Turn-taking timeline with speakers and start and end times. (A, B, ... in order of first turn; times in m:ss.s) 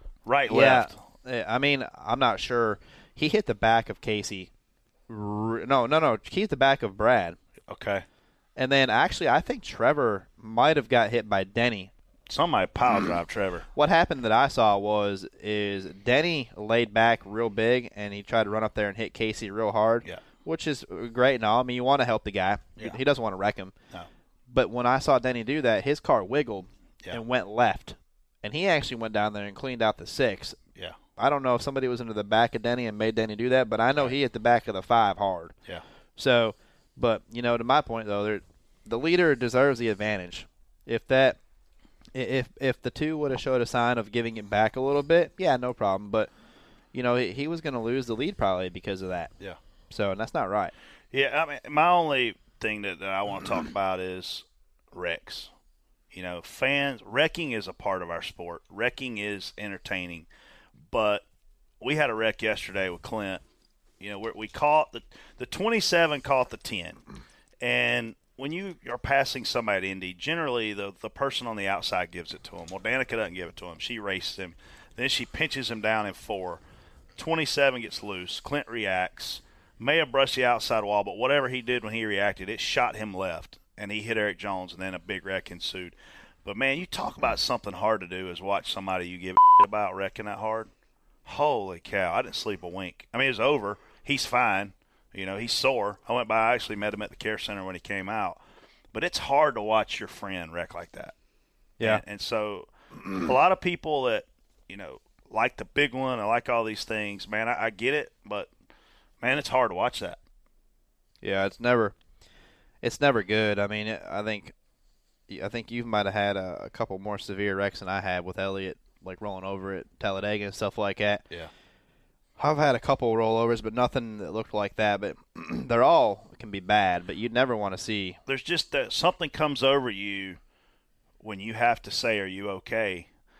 0:00.2-0:01.0 A
0:00.5-0:04.5 B
0:05.1-0:07.4 B
0:07.7-0:08.0 A
0:08.6-0:11.9 B
0:12.3-0:13.7 A
0:13.7-0:23.7 B
0:24.5-0:30.6 B
0:31.2-0:35.5 B
0:36.2-0:41.4 B
0:42.1-0:46.3 B
0:46.9-0:49.3 B
0:49.9-0:50.7 B
0:51.1-0:55.5 A
0:56.1-1:00.3 A
1:00.9-1:01.2 A
1:01.8-1:03.4 A
1:04.0-1:07.0 A
1:07.6-1:16.6 A
1:17.2-1:30.7 A
1:31.2-1:38.4 A
1:38.9-1:41.1 A
1:41.8-1:48.5 A
1:49.2-1:50.2 A
1:51.2-1:51.9 B
1:52.8-1:54.5 B
1:55.3-2:01.2 B
2:02.4-2:08.2 B
2:08.3-2:10.4 A
2:11.2-2:13.1 A